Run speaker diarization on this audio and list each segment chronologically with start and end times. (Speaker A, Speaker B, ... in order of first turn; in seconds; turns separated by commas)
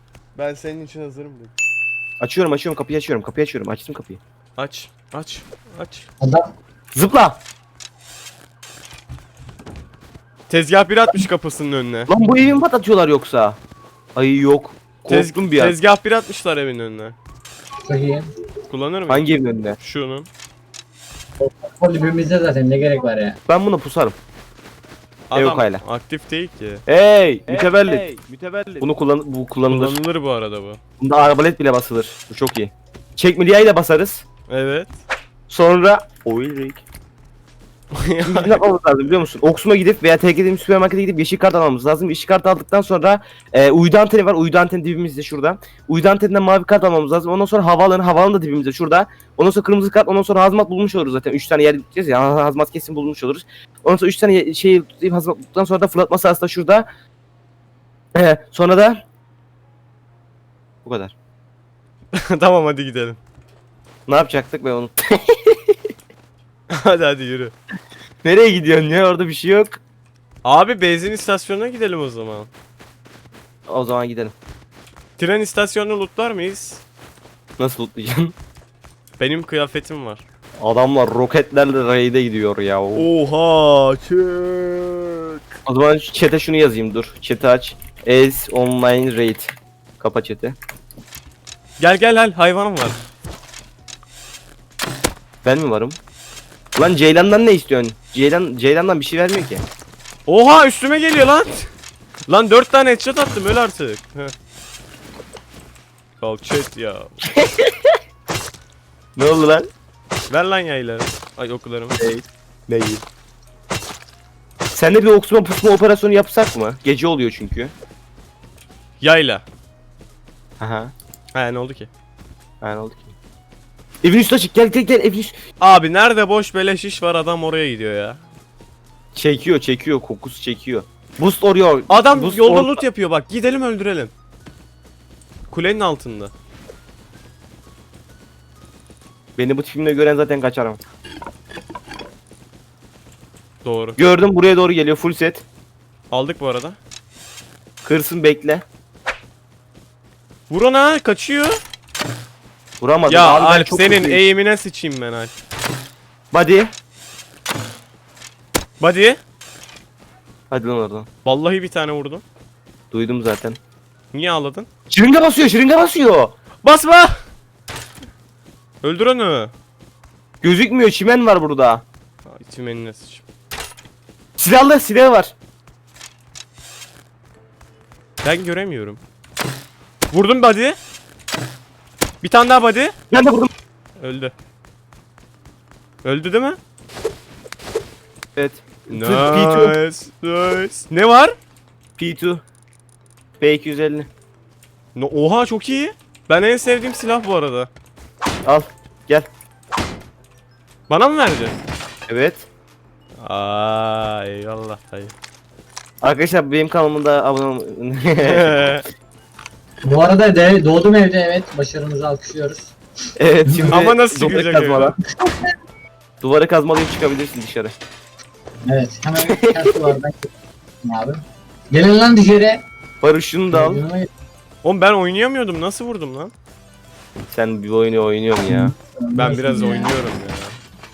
Speaker A: 0.3-1.5, Speaker B: 2.2-4.2, Speaker A: 4.6-6.1, Speaker C: 6.2-6.5, Speaker B: 6.9-7.4, Speaker A: 10.5-12.1, Speaker B: 12.1-13.6, Speaker B: 14.1-15.8, Speaker A: 15.1-17.1, Speaker C: 17.8-18.3, Speaker A: 18.7-19.3, Speaker B: 19.1-19.8, Speaker A: 19.8-20.3, Speaker C: 21.4-23.4, Speaker B: 23.5-24.1, Speaker A: 25.3-26.8, Speaker B: 25.3-25.8, Speaker B: 26.9-28.0, Speaker A: 27.5-28.9, Speaker B: 28.8-30.0, Speaker A: 29.6-30.8, Speaker B: 31.0-34.2, Speaker A: 34.5-34.9, Speaker B: 35.5-36.8, Speaker A: 38.0-38.6, Speaker B: 38.2-56.9, Speaker B: 58.1-59.0, Speaker B: 60.8-61.1, Speaker A: 62.1-63.2, Speaker B: 64.1-65.8, Speaker A: 66.7-67.5, Speaker B: 68.2-69.8, Speaker A: 70.4-72.5, Speaker B: 73.7-74.3, Speaker A: 75.2-76.8, Speaker B: 77.6-78.3, Speaker A: 79.2-80.2, Speaker B: 80.6-83.1, Speaker A: 82.9-85.5, Speaker B: 85.7-90.6, Speaker A: 91.8-93.0, Speaker B: 95.4-96.0, Speaker B: 96.8-99.6, Speaker A: 100.3-101.7, Speaker A: 102.3-104.3, Speaker A: 106.2-107.2, Speaker B: 107.4-107.9, Speaker B: 109.2-109.7, Speaker A: 110.3-112.0, Speaker B: 112.0-113.0, Speaker B: 114.7-117.7, Speaker A: 119.0-119.4, Speaker B: 120.6-120.9, Speaker A: 121.3-121.9, Speaker B: 122.6-123.1, Speaker B: 124.0-125.3, Speaker A: 125.6-128.2, Speaker B: 129.1-132.8, Speaker A: 131.9-134.1, Speaker A: 135.5-136.3, Speaker B: 139.3-140.8, Speaker A: 143.6-144.0, Speaker B: 144.0-145.4, Speaker A: 146.1-146.8, Speaker B: 147.8-148.6, Speaker A: 150.5-151.6, Speaker B: 152.8-154.2, Speaker A: 153.1-155.3, Speaker B: 156.3-156.7, Speaker A: 158.8-159.2, Speaker B: 160.5-161.1, Speaker A: 161.2-162.2, Speaker B: 162.9-163.6, Speaker A: 164.1-164.7, Speaker B: 164.9-166.3, Speaker A: 166.6-167.2, Speaker A: 168.8-169.5, Speaker B: 170.4-171.8, Speaker A: 172.2-173.2, Speaker B: 174.4-175.3, Speaker A: 178.2-179.0, Speaker A: 180.1-180.8, Speaker A: 182.2-182.9, Speaker B: 183.1-183.5, Speaker A: 184.0-184.3, Speaker A: 186.0-186.6, Speaker B: 188.3-189.7, Speaker A: 188.9-191.3, Speaker B: 192.0-192.4, Speaker B: 193.4-194.1, Speaker A: 194.9-197.7, Speaker B: 198.4-199.3, Speaker A: 200.9-201.6, Speaker B: 202.1-202.5, Speaker A: 203.2-205.1, Speaker B: 206.0-208.5, Speaker A: 208.2-208.8, Speaker C: 209.8-212.7, Speaker B: 213.2-214.9, Speaker C: 213.4-213.8, Speaker A: 213.7-214.9, Speaker B: 216.2-217.7, Speaker C: 218.7-220.3, Speaker B: 219.2-219.9, Speaker C: 220.8-222.6, Speaker B: 223.0-223.8, Speaker C: 223.5-224.1, Speaker A: 224.6-226.3, Speaker B: 227.3-228.7, Speaker C: 228.5-229.9, Speaker A: 229.1-230.6